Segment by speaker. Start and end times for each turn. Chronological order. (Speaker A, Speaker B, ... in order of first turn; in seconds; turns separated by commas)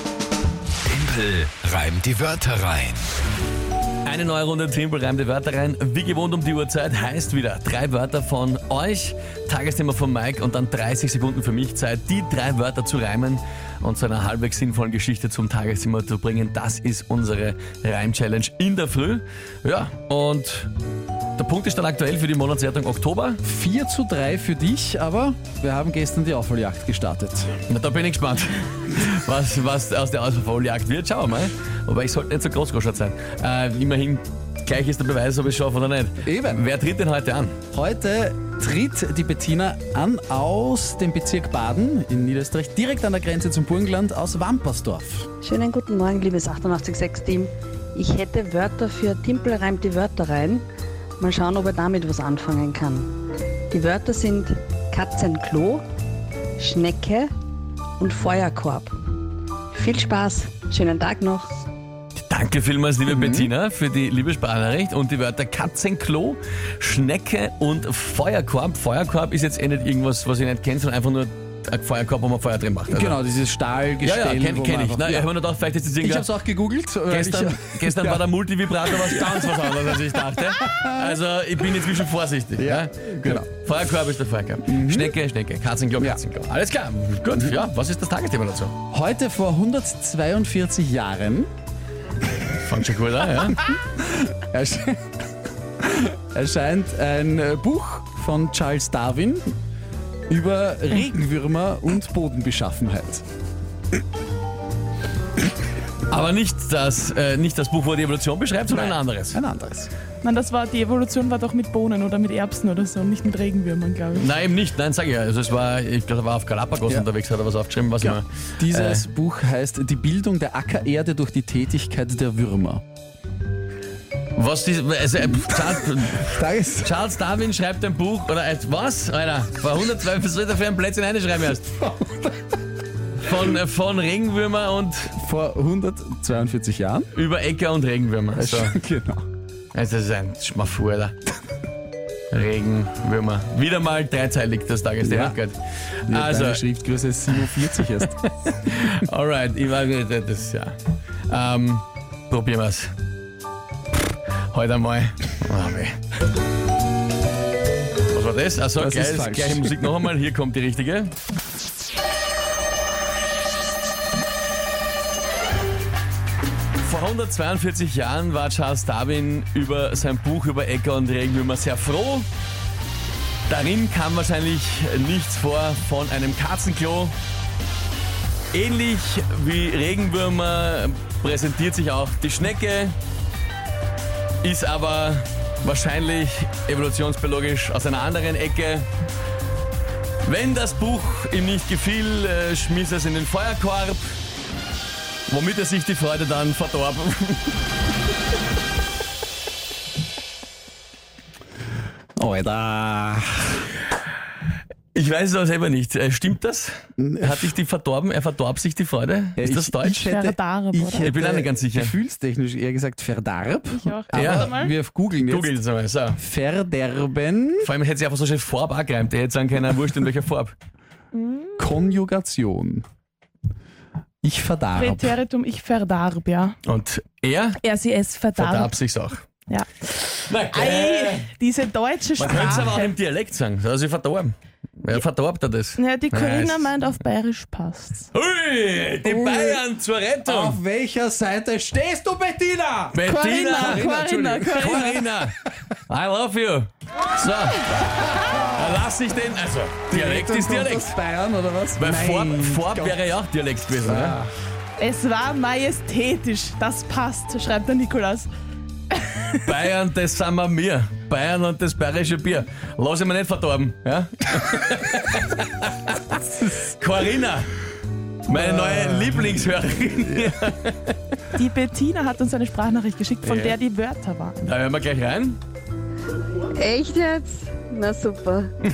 Speaker A: 0.8-3.0, Speaker B: 4.0-20.7, Speaker B: 21.4-23.4, Speaker C: 23.4-27.5, Speaker B: 27.7-37.6, Speaker C: 36.2-36.6, Speaker C: 37.7-45.3, Speaker D: 45.4-50.6, Speaker D: 51.2-53.2, Speaker D: 53.7-55.8, Speaker D: 56.6-57.3, Speaker D: 58.0-58.9, Speaker D: 59.7-61.5, Speaker B: 62.1-73.2, Speaker C: 63.0-63.5, Speaker C: 72.9-75.3, Speaker B: 74.0-76.3, Speaker C: 76.0-78.2, Speaker B: 77.1-88.8, Speaker C: 78.9-79.5, Speaker C: 80.6-81.2, Speaker C: 82.6-83.5, Speaker C: 84.7-85.2, Speaker C: 88.9-91.5, Speaker B: 92.6-93.7, Speaker C: 93.6-95.0, Speaker C: 95.8-99.5, Speaker C: 100.3-103.2, Speaker B: 106.1-109.4, Speaker C: 108.7-109.9, Speaker E: 110.2-114.3, Speaker B: 114.1-119.1, Speaker C: 118.0-122.8, Speaker B: 124.3-131.8, Speaker C: 126.2-126.9, Speaker C: 131.8-132.3, Speaker B: 133.2-135.1, Speaker C: 135.2-137.1, Speaker B: 137.1-138.7, Speaker C: 138.3-139.2, Speaker B: 139.7-141.2, Speaker B: 142.3-146.6, Speaker C: 145.0-145.4, Speaker C: 146.1-148.2, Speaker B: 147.3-150.8, Speaker B: 151.3-152.9, Speaker B: 154.5-156.0, Speaker B: 158.1-161.1, Speaker C: 158.8-159.9, Speaker B: 166.8-172.3, Speaker B: 173.5-177.1, Speaker B: 178.5-182.9, Speaker B: 184.4-188.9, Speaker B: 190.2-194.1, Speaker B: 195.3-197.6, Speaker C: 202.2-203.6, Speaker B: 204.9-210.0, Speaker C: 207.0-207.5, Speaker C: 209.4-215.5, Speaker E: 209.8-211.1, Speaker B: 211.0-211.9, Speaker E: 213.7-214.7, Speaker B: 214.1-214.6, Speaker B: 215.2-216.2, Speaker C: 216.2-217.7, Speaker B: 217.6-220.6, Speaker E: 221.2-221.5, Speaker C: 221.6-222.8, Speaker C: 224.2-225.1, Speaker E: 224.7-226.6, Speaker B: 226.6-227.6, Speaker E: 227.6-228.8, Speaker B: 228.3-229.3, Speaker E: 229.5-232.9, Speaker B: 230.3-231.3, Speaker B: 232.1-236.8, Speaker E: 235.8-238.1, Speaker B: 238.1-240.6, Speaker C: 239.0-239.6, Speaker C: 240.2-245.3, Speaker B: 242.9-243.9, Speaker E: 243.1-245.0, Speaker B: 244.6-245.3, Speaker B: 245.9-251.0, Speaker C: 249.9-253.0, Speaker B: 251.8-254.2, Speaker C: 253.8-254.3, Speaker E: 254.8-258.3, Speaker E: 258.9-259.3, Speaker B: 259.4-267.5, Speaker C: 266.2-266.7, Speaker B: 268.2-271.1, Speaker C: 268.3-269.4, Speaker E: 271.4-274.5, Speaker B: 273.2-273.6, Speaker B: 274.4-275.4, Speaker D: 276.6-278.5